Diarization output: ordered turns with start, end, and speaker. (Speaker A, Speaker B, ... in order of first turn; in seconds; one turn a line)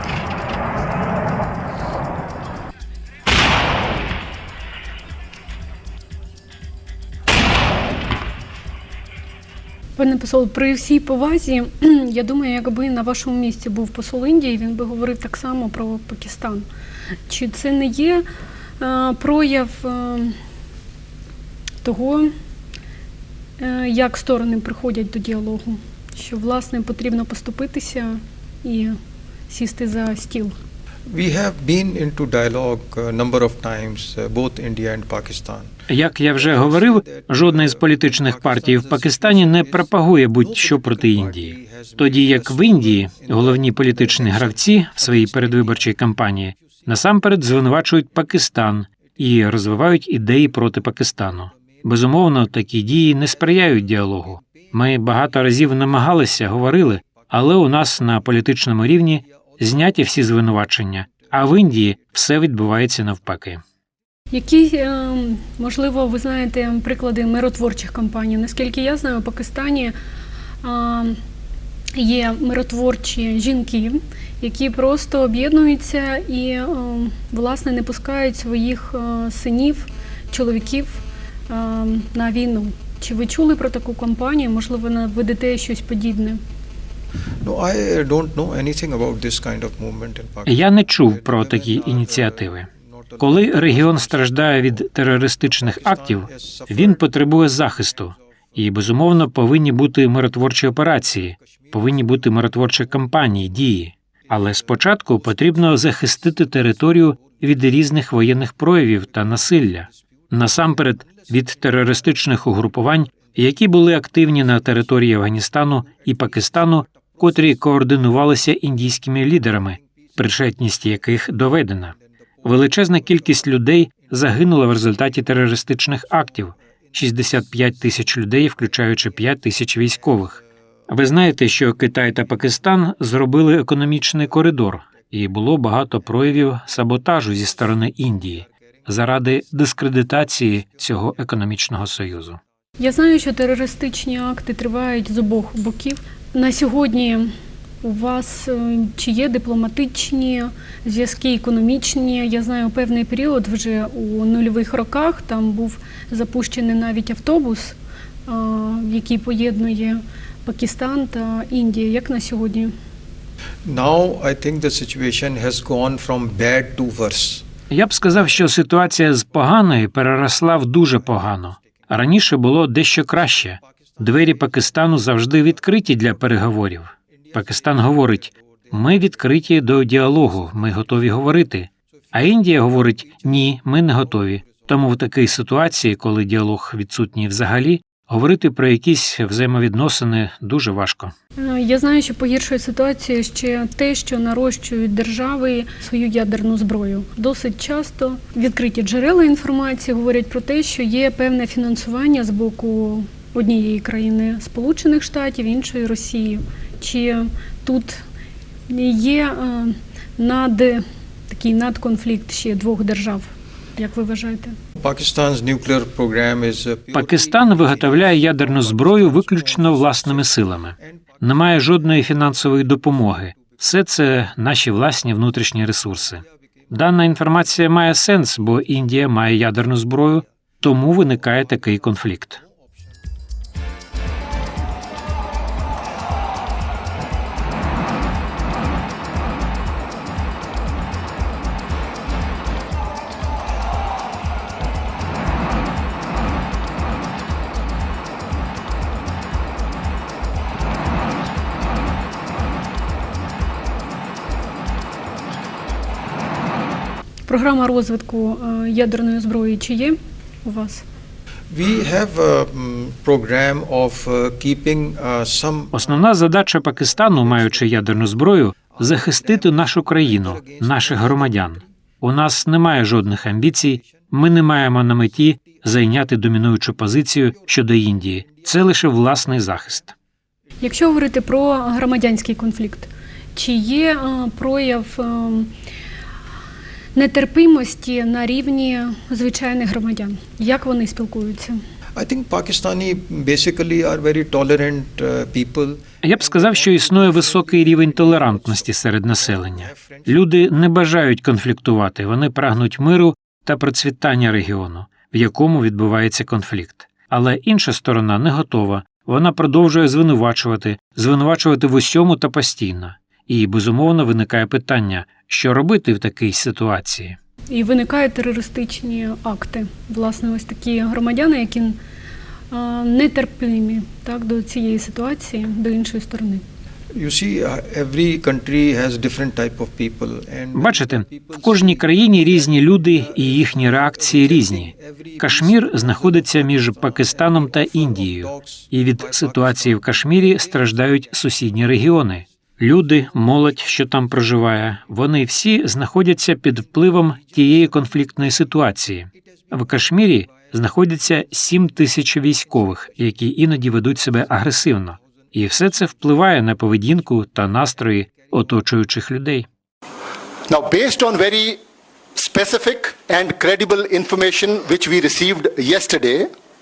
Speaker A: 10.0-16.6
Speaker A: 17.3-18.2
Speaker A: 18.8-20.4
Speaker A: 21.8-22.3
Speaker A: 23.6-29.0
Speaker A: 29.5-30.6
Speaker B: 31.1-35.7
Speaker C: 35.9-63.6
Speaker B: 36.4-39.9
Speaker B: 40.4-45.9
Speaker A: 64.3-69.9
Speaker A: 70.6-71.2
Speaker A: 71.9-86.4
Speaker B: 87.4-94.8
Speaker C: 90.5-92.7
Speaker C: 93.2-142.4
Speaker B: 95.6-97.0
Speaker A: 142.8-157.7
Speaker A: 158.3-162.7
Speaker B: 163.6-167.4
Speaker C: 167.7-191.1
Speaker A: 191.4-208.0
Speaker A: 208.7-214.6
Speaker B: 214.8-221.0
Speaker C: 216.9-232.4
Speaker A: 257.3-260.8
Speaker B: 261.5-266.0
Speaker C: 265.7-279.9
Speaker B: 267.3-267.8
Speaker B: 268.8-271.6
Speaker A: 280.6-285.5
Speaker A: 286.9-291.6
Speaker B: 291.9-300.2
Speaker C: 296.0-317.2
Speaker A: 317.5-321.8
Speaker A: 322.5-326.4
Speaker B: 326.9-340.1
Speaker C: 330.5-359.5
Speaker D: 360.5-361.6
Speaker D: 362.1-366.3